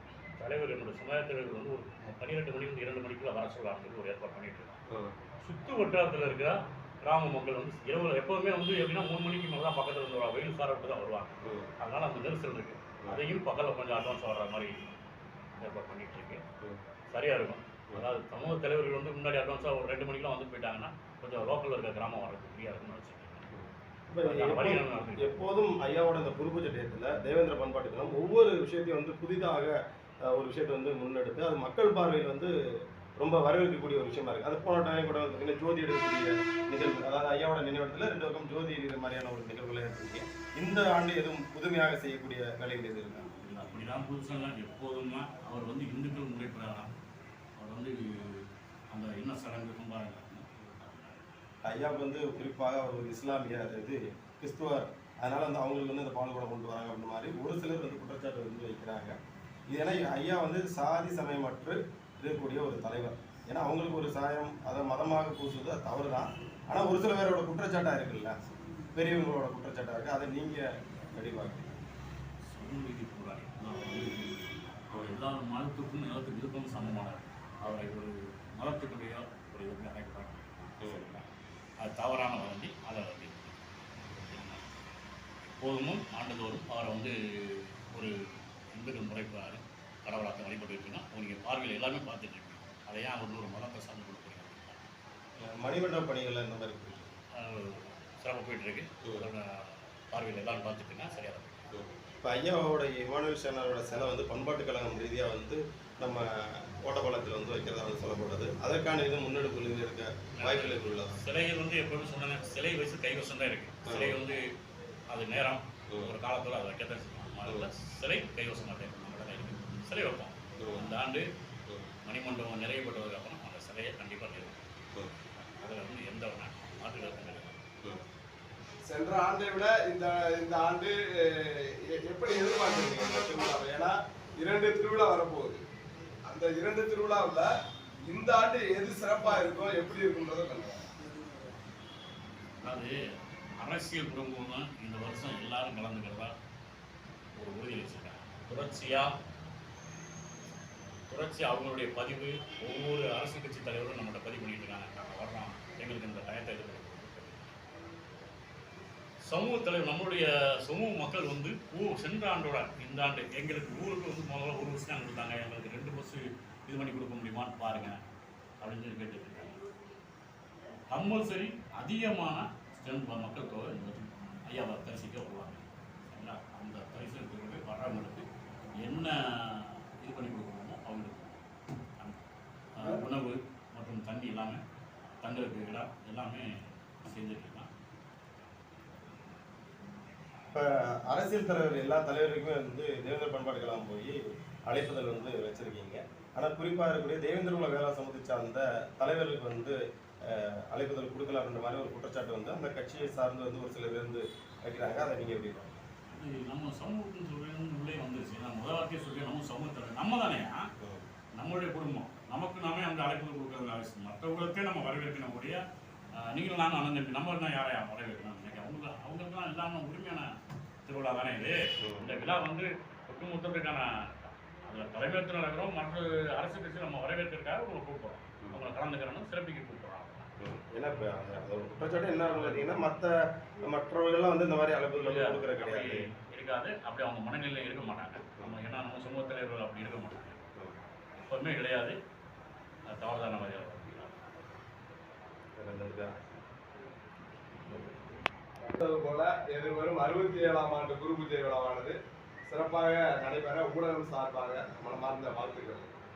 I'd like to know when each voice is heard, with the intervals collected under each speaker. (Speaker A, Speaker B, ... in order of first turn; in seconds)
Speaker A: 0.4-4.8, 5.4-14.9, 15.6-16.4, 17.1-23.5, 24.2-25.4, 43.4-46.9, 47.6-51.2, 72.5-81.3, 81.8-83.6, 84.1-84.6, 85.6-94.9, 97.3-101.6, 110.4-114.4, 115.1-121.3, 122.0-124.7, 125.3-127.7, 142.6-142.9, 143.6-146.3, 147.4-149.1, 151.1-157.7, 159.2-168.0, 168.6-169.6, 170.9-178.2, 178.8-181.4, 182.8-184.6, 185.2-187.7, 206.1-210.7, 211.4-215.6, 216.2-220.3, 220.8-230.3, 232.2-232.8, 235.0-240.4, 241.2-242.0, 242.9-244.1
Speaker B: 11.4-11.7, 23.5-32.5, 33.2-43.3, 51.6-59.1, 59.7-68.3, 69.0-71.8, 80.8-81.1, 95.5-97.1, 101.7-111.2, 113.9-114.2, 120.6-120.9, 190.5-194.2, 194.7-205.8, 221.8-222.1, 230.4-236.1, 245.6-246.1
Speaker C: 128.9-135.6, 136.3-137.5, 138.1-140.9, 248.6-255.9